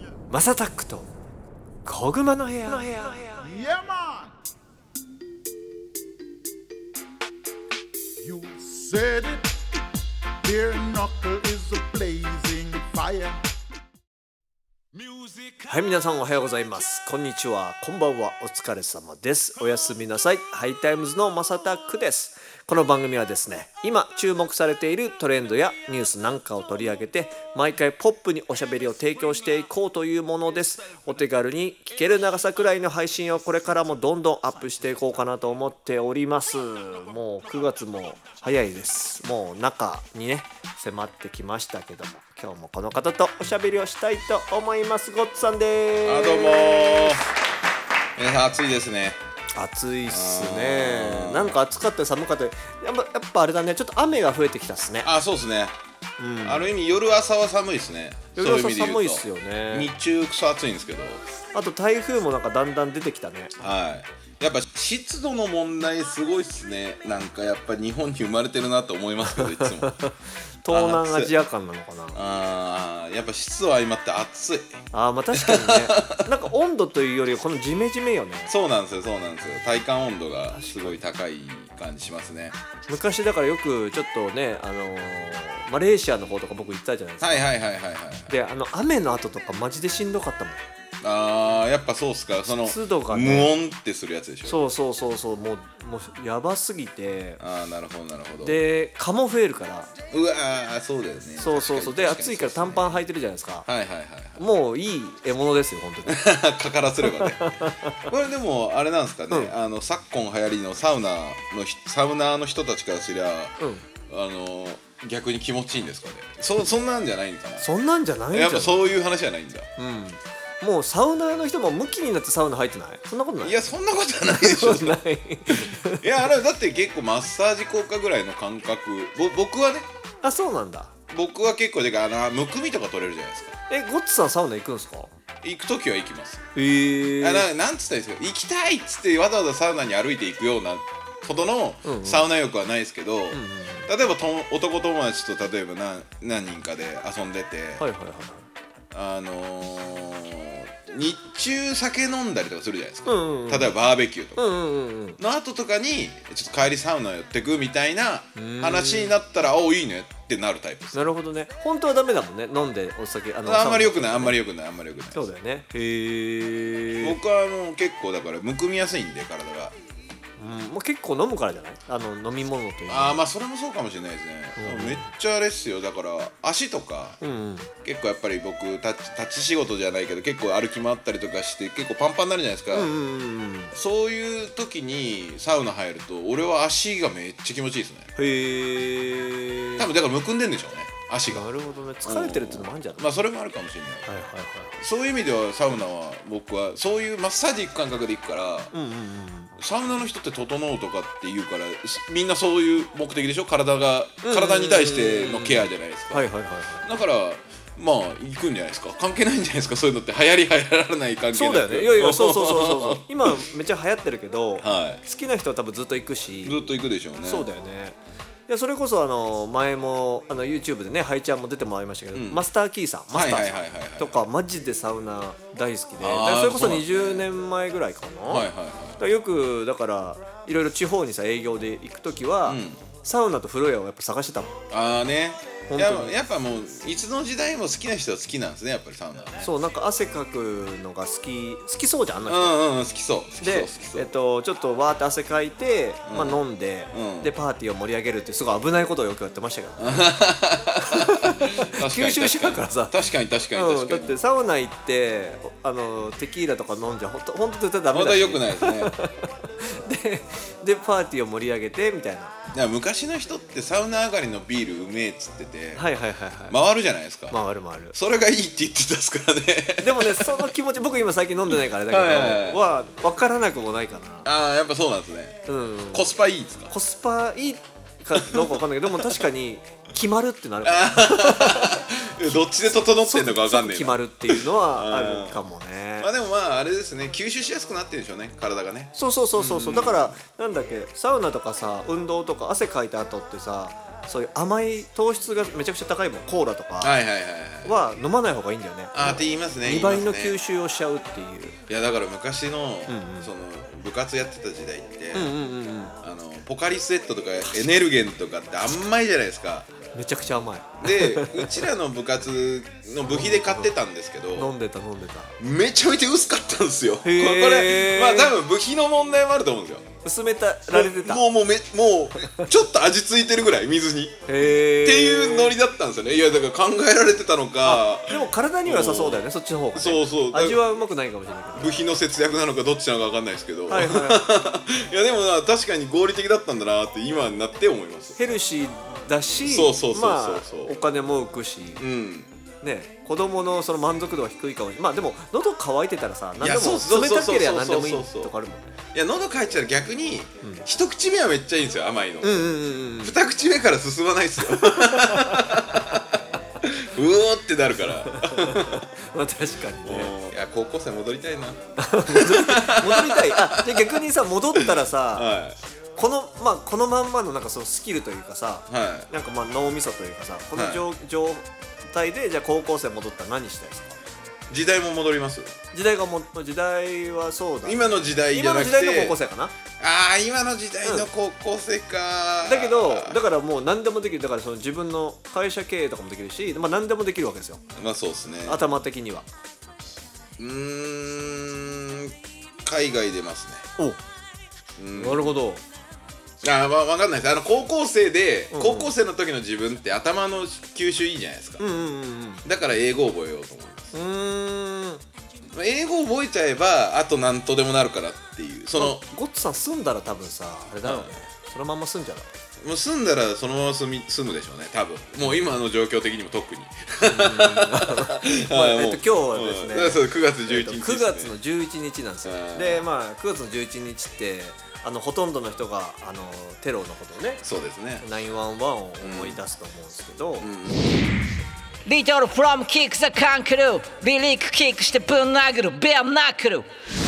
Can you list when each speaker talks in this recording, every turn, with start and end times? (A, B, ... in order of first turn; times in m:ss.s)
0:00.3-0:01.1 A
0:01.8-0:03.3 A
0:03.4-0:04.3 B
0:08.2-0:09.6 B
0:10.4-0:13.4 B
0:15.6-0:47.2 A
0:46.0-0:47.2 C
0:48.2-0:49.2 C
0:49.6-0:55.1 A
0:50.1-0:51.6 C
0:55.0-0:55.8 C
0:56.2-0:56.7 A
0:56.4-1:01.2 C
0:58.3-0:59.9 A
1:01.5-1:03.5 A
1:03.6-1:09.9 C
1:09.3-1:12.2 A
1:10.7-1:11.3 C
1:12.1-1:14.8 C
1:14.9-1:18.5 A
1:15.3-1:16.3 C
1:18.5-1:22.6 C
1:20.5-1:21.0 A
1:22.9-1:27.5 A
1:27.2-1:28.3 C
1:28.3-1:30.6 A
1:31.0-1:34.6 C
1:32.6-1:33.5 A
1:34.4-1:37.4 A
1:37.4-1:38.6 C
1:38.4-1:39.9 A
1:40.1-1:43.0 C
1:41.4-1:43.7 A
1:43.6-1:44.4 C
1:44.4-1:46.2 A
1:46.1-1:47.5 C
1:47.1-1:48.0 A
1:48.0-1:57.7 C
1:53.6-1:53.8 A
1:57.6-1:58.8 A
1:58.3-1:59.7 C
1:59.8-2:03.6 A
2:03.4-2:05.0 C
2:04.2-2:06.0 A
2:05.5-2:09.9 C
2:10.2-2:10.9 A
2:11.1-2:13.6 C
2:13.7-2:15.1 A
2:15.4-2:16.4 C
2:16.5-2:17.5 A
2:17.2-2:27.8 C
2:21.8-2:22.3 A
2:23.3-2:23.9 A
2:27.8-2:28.5 A
2:28.9-2:34.5 C
2:33.0-2:33.7 A
2:34.4-2:35.2 A
2:35.2-2:41.1 C
2:38.4-2:39.1 A
2:40.9-2:44.4 A
2:43.4-2:45.2 C
2:45.1-2:47.2 A
2:47.0-2:49.8 C
2:50.4-2:53.2 A
2:52.9-2:57.2 C
2:54.6-2:55.1 A
2:57.2-2:57.7 A
2:57.8-3:02.9 C
3:02.7-3:03.7 A
3:03.7-3:08.1 C
3:08.2-3:09.9 A
3:09.8-3:11.5 C
3:11.3-3:13.0 A
3:12.0-3:14.1 C
3:14.0-3:14.8 A
3:14.8-3:18.7 C
3:18.7-3:19.6 A
3:19.6-3:26.3 C
3:24.2-3:26.9 A
3:26.8-3:33.4 C
3:31.3-3:36.7 A
3:34.6-3:35.0 C
3:36.4-3:37.5 C
3:37.2-3:48.5 A
3:42.1-3:42.4 C
3:43.1-3:44.2 C
3:46.0-3:47.3 C
3:48.3-3:49.0 C
3:49.0-3:54.6 A
3:52.5-3:52.8 C
3:54.7-3:59.5 C
3:55.7-3:56.1 A
3:59.4-4:02.6 A
4:02.3-4:04.1 C
4:03.4-4:10.1 A
4:06.0-4:06.4 C
4:06.9-4:07.3 C
4:09.8-4:14.2 C
4:10.8-4:13.0 A
4:13.5-4:22.3 A
4:17.9-4:18.9 C
4:22.5-4:25.9 C
4:25.8-4:26.6 A
4:26.5-4:27.4 C
4:27.3-4:28.0 A
4:27.9-4:30.5 C
4:29.8-4:34.3 A
4:31.9-4:32.6 C
4:34.2-4:36.7 C
4:35.4-4:36.1 A
4:36.7-4:41.9 A
4:38.2-4:39.2 C
4:40.6-4:45.4 C
4:43.0-4:46.1 A
4:46.0-4:50.2 C
4:48.9-4:56.9 A
4:56.8-4:57.7 C
4:57.6-5:01.6 A
4:58.9-5:00.4 C
5:01.7-5:05.3 C
5:02.9-5:03.3 A
5:05.1-5:05.9 A
5:06.0-5:09.7 C
5:09.9-5:11.6 A
5:10.8-5:14.5 C
5:13.1-5:13.7 A
5:14.3-5:15.3 A
5:15.4-5:19.8 C
5:17.0-5:18.3 A
5:20.0-5:21.2 A
5:20.7-5:30.6 C
5:24.2-5:25.5 A
5:27.6-5:31.8 A
5:31.5-5:38.3 C
5:33.7-5:34.3 A
5:38.2-5:41.8 A
5:39.4-5:40.8 C
5:41.8-5:42.3 C
5:42.6-5:48.8 A
5:46.4-5:48.3 C
5:48.9-5:58.8 C
5:52.2-5:53.2 A
5:54.4-5:55.6 A
5:58.0-6:00.1 A
5:59.8-6:04.0 C
6:01.8-6:05.3 A
6:04.5-6:05.6 C
6:06.0-6:14.0 A
6:08.7-6:09.1 C
6:10.5-6:10.8 C
6:14.5-6:15.6 C
6:15.7-6:19.5 A
6:17.6-6:19.2 C
6:19.8-6:23.2 C
6:22.4-6:27.6 A
6:27.7-6:28.6 C
6:28.4-6:29.3 A
6:30.4-6:33.7 C
6:34.8-6:35.4 C
6:34.9-6:35.6 A
6:36.4-6:41.6 C
6:38.5-6:38.9 A
6:41.6-6:42.4 A
6:42.4-6:43.9 C
6:43.9-6:45.0 A
6:45.5-6:49.0 C
6:48.8-6:52.3 A
6:50.8-6:51.2 C
6:52.6-7:01.3 C
6:57.0-7:07.4 A
7:02.2-7:02.8 C
7:07.4-7:08.0 C
7:08.0-7:10.5 A
7:09.0-7:09.4 C
7:10.4-7:11.1 C
7:11.8-7:16.7 D